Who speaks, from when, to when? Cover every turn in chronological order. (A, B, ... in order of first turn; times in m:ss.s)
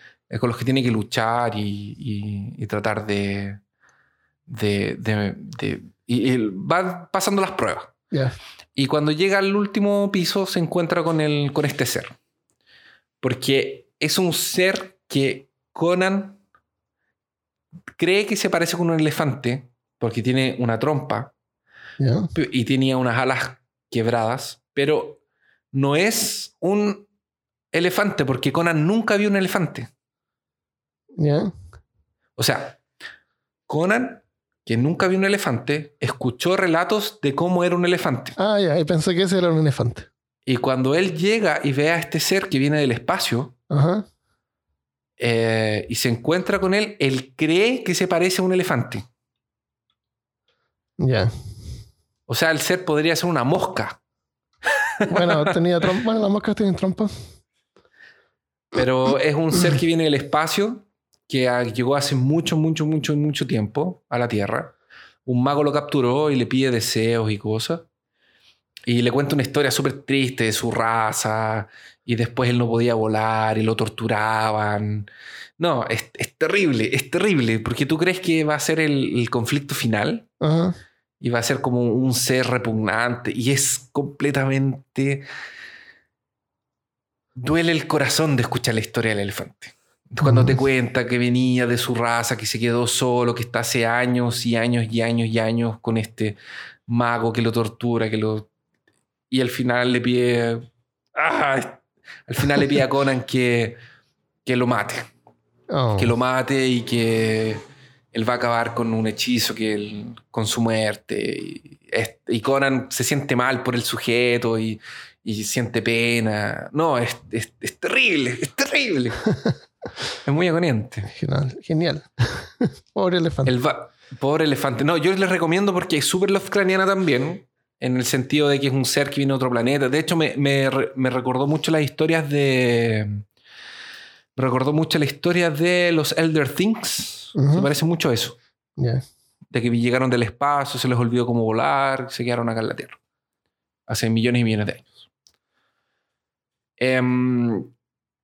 0:00.3-0:03.6 A
0:04.5-0:07.9 A
0:08.8-0:12.1 A
0:13.2-0:16.4 A
0:18.0-0:21.3 A
0:22.0-0:22.3 B
0:22.3-0:25.2 A
0:25.7-0:27.1 A
0:27.7-0:29.9 A
0:31.2-0:31.5 B
0:32.4-0:32.8 A
0:33.7-0:38.4 A
0:38.4-0:40.1 B
0:40.4-0:43.5 A
0:43.7-0:44.0 B
0:45.2-0:49.1 A
0:51.0-0:51.3 B
0:52.3-0:54.0 A
0:55.0-0:55.5 A
0:55.1-0:57.1 B
0:58.7-1:04.7 A
1:05.2-1:07.9 A
1:08.9-1:20.3 A
1:20.4-1:20.7 B
1:21.2-1:25.2 A
1:27.4-1:38.5 A
1:30.2-1:30.6 B
1:39.3-1:43.8 A
1:44.4-1:45.1 A
1:45.7-1:46.1 B
1:46.0-1:59.2 A
2:00.2-2:01.1 A
2:01.1-2:03.5 B
2:03.4-2:13.2 A
2:14.4-2:18.4 A
2:17.4-2:17.7 B
2:18.8-2:19.0 B
2:19.5-2:23.0 A
2:23.9-2:25.0 A
2:26.8-2:27.7 A